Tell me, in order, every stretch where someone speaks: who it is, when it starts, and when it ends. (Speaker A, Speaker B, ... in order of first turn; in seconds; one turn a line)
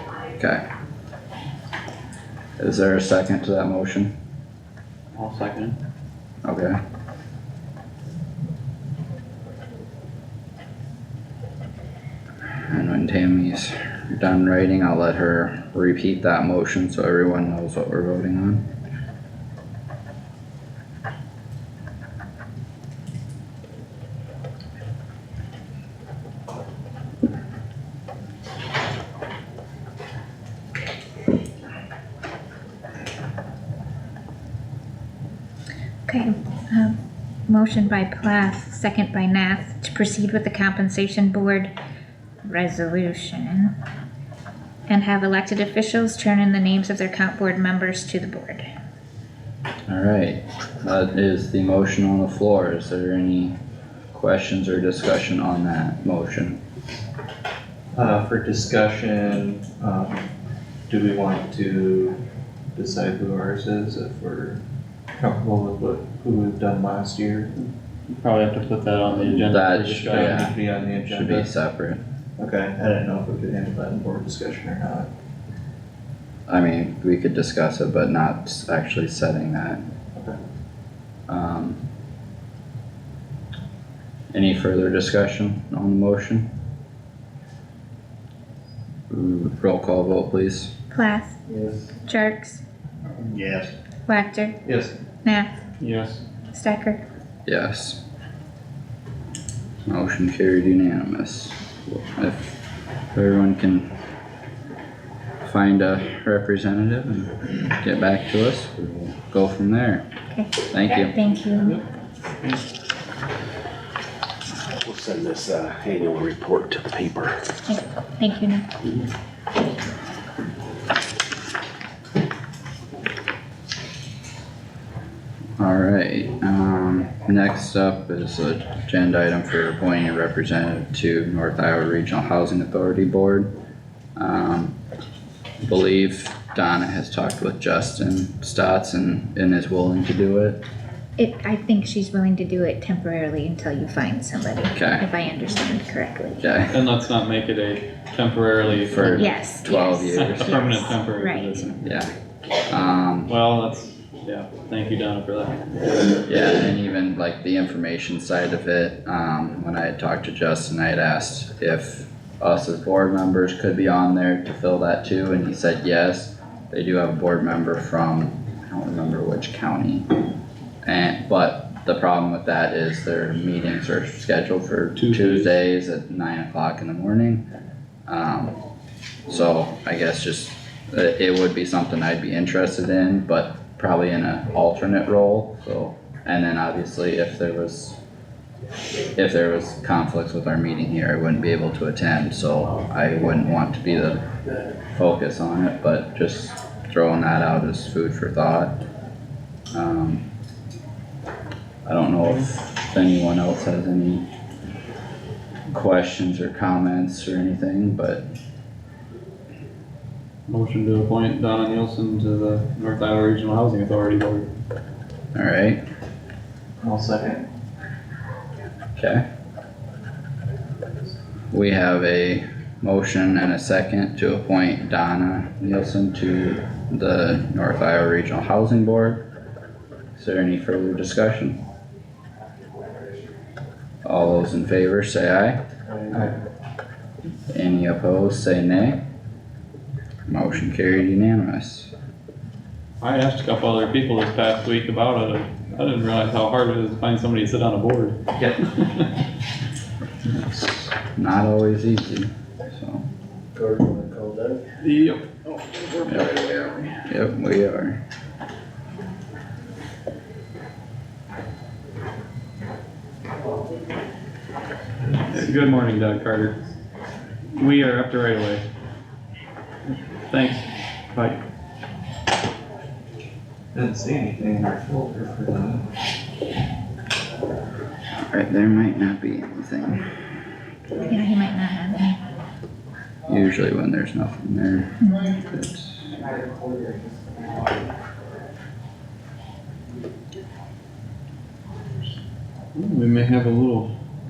Speaker A: 0.4-0.7
Speaker A: 2.6-4.2
Speaker B: 5.1-5.8
Speaker A: 6.4-6.8
Speaker A: 12.7-18.7
Speaker C: 36.1-41.7
Speaker C: 42.5-43.7
Speaker C: 44.9-48.7
Speaker A: 49.9-53.6
Speaker A: 54.1-56.6
Speaker D: 57.9-60.3
Speaker D: 60.9-62.2
Speaker D: 62.7-64.6
Speaker D: 65.2-67.5
Speaker B: 68.1-70.5
Speaker A: 69.4-72.0
Speaker D: 69.9-71.5
Speaker D: 72.4-75.1
Speaker A: 76.5-79.9
Speaker A: 81.3-81.8
Speaker A: 84.3-86.5
Speaker A: 89.1-90.7
Speaker C: 90.9-91.4
Speaker C: 92.0-92.6
Speaker D: 93.2-93.7
Speaker C: 94.1-94.6
Speaker D: 94.7-95.0
Speaker C: 95.2-95.5
Speaker B: 95.8-96.2
Speaker C: 96.5-97.0
Speaker A: 97.5-98.0
Speaker A: 99.9-102.6
Speaker A: 103.1-103.9
Speaker A: 105.4-110.0
Speaker C: 110.3-111.8
Speaker A: 110.7-111.2
Speaker E: 114.8-117.4
Speaker C: 117.7-118.7
Speaker A: 125.6-133.5
Speaker A: 134.2-134.8
Speaker A: 135.6-140.6
Speaker C: 141.2-146.4
Speaker A: 144.7-145.1
Speaker A: 146.4-146.8
Speaker B: 146.7-149.3
Speaker A: 148.8-150.6
Speaker C: 149.1-151.6
Speaker B: 150.1-151.8
Speaker A: 151.7-152.1
Speaker A: 152.7-153.3
Speaker B: 153.3-156.0
Speaker A: 156.3-170.1
Speaker A: 170.8-177.4
Speaker B: 175.0-175.5
Speaker A: 178.1-178.6
Speaker A: 179.3-188.0
Speaker A: 189.2-194.2
Speaker A: 194.9-198.8
Speaker A: 199.7-200.3
Speaker A: 201.8-204.3
Speaker A: 205.7-208.3
Speaker B: 210.5-214.5
Speaker A: 215.3-215.8
Speaker D: 216.8-217.4
Speaker A: 219.0-219.3
Speaker A: 221.5-229.2
Speaker A: 230.2-231.6
Speaker A: 234.0-236.3
Speaker A: 237.5-239.0
Speaker A: 240.3-241.9
Speaker B: 243.0-249.1
Speaker A: 250.2-253.0
Speaker D: 253.6-254.6
Speaker B: 254.8-256.9
Speaker A: 256.1-256.5
Speaker A: 257.0-258.0
Speaker D: 265.0-265.6
Speaker B: 265.3-266.6
Speaker B: 267.6-268.7
Speaker B: 269.9-271.4
Speaker D: 273.7-275.9
Speaker A: 278.2-280.1
Speaker C: 281.0-282.2
Speaker A: 283.3-286.2
Speaker B: 292.8-293.9